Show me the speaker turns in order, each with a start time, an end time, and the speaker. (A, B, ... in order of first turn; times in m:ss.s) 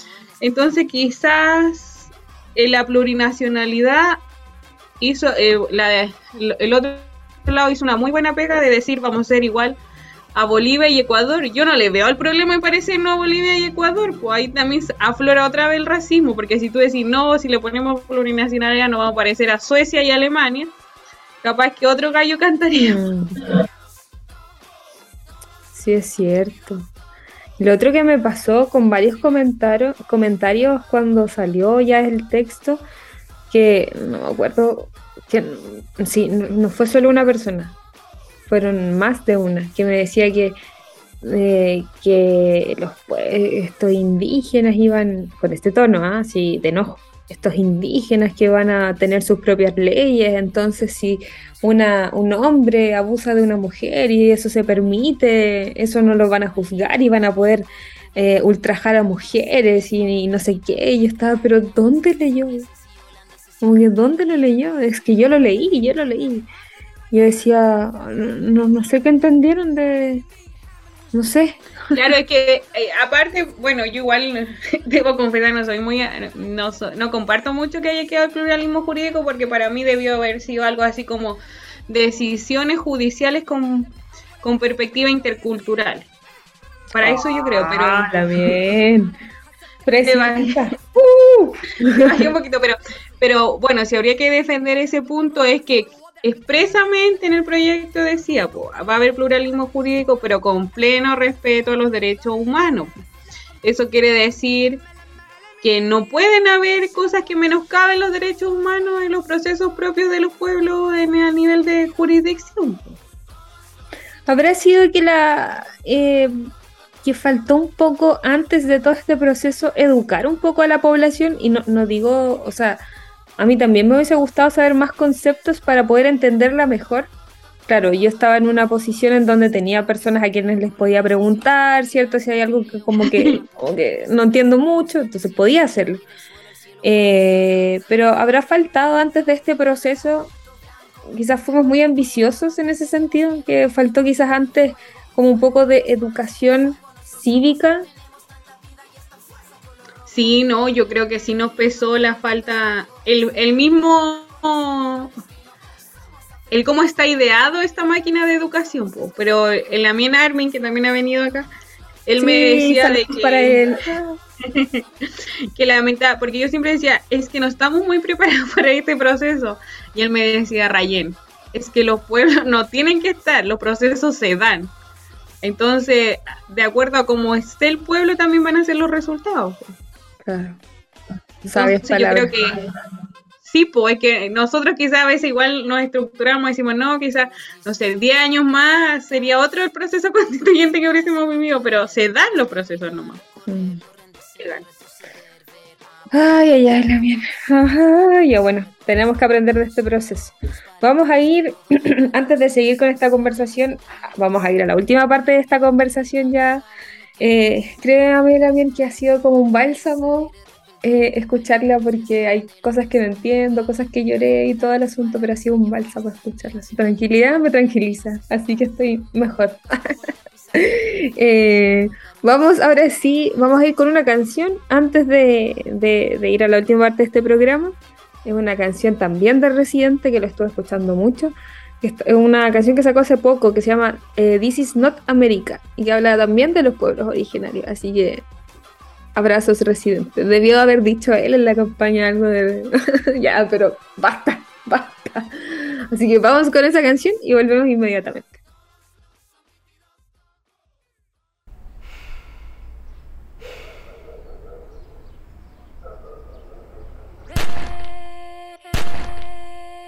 0:00.4-0:04.2 A
0:05.0-0:09.8 A
0:10.3-0:20.7 A
0:21.4-0:23.0 A
0:22.8-0:23.4 B
0:25.7-0:26.9 B
0:27.6-0:32.8 B
0:33.5-0:37.8 B
0:38.5-0:40.6 B
0:41.2-1:02.7 B
1:03.6-1:06.5 B
1:07.1-1:10.2 B
1:11.1-1:12.0 B
1:11.9-1:26.1 A
1:26.9-1:28.5 A
1:27.0-1:29.1 B
1:29.8-1:32.3 B
1:30.0-1:30.6 A
1:31.9-1:42.9 A
1:43.6-1:44.8 A
1:45.6-1:53.0 A
1:54.3-1:56.3 B
1:57.0-2:02.8 B
2:03.4-2:07.1 B
2:07.7-2:16.0 B
2:13.0-2:13.4 A
2:16.8-2:20.3 B
2:21.0-2:27.9 B
2:30.1-2:35.1 A
2:36.5-2:41.5 A
2:42.0-2:43.6 A
2:42.2-2:44.2 B
2:44.4-2:44.8 A
2:45.5-2:54.7 A
2:55.4-2:59.7 A
3:00.2-3:00.6 B
3:01.4-3:02.3 B
3:01.5-3:02.6 A
3:03.4-3:13.2 A
3:13.5-3:13.8 B
3:14.4-3:14.7 A
3:16.1-3:26.6 B
3:27.2-3:58.2 B
3:59.2-4:08.4 B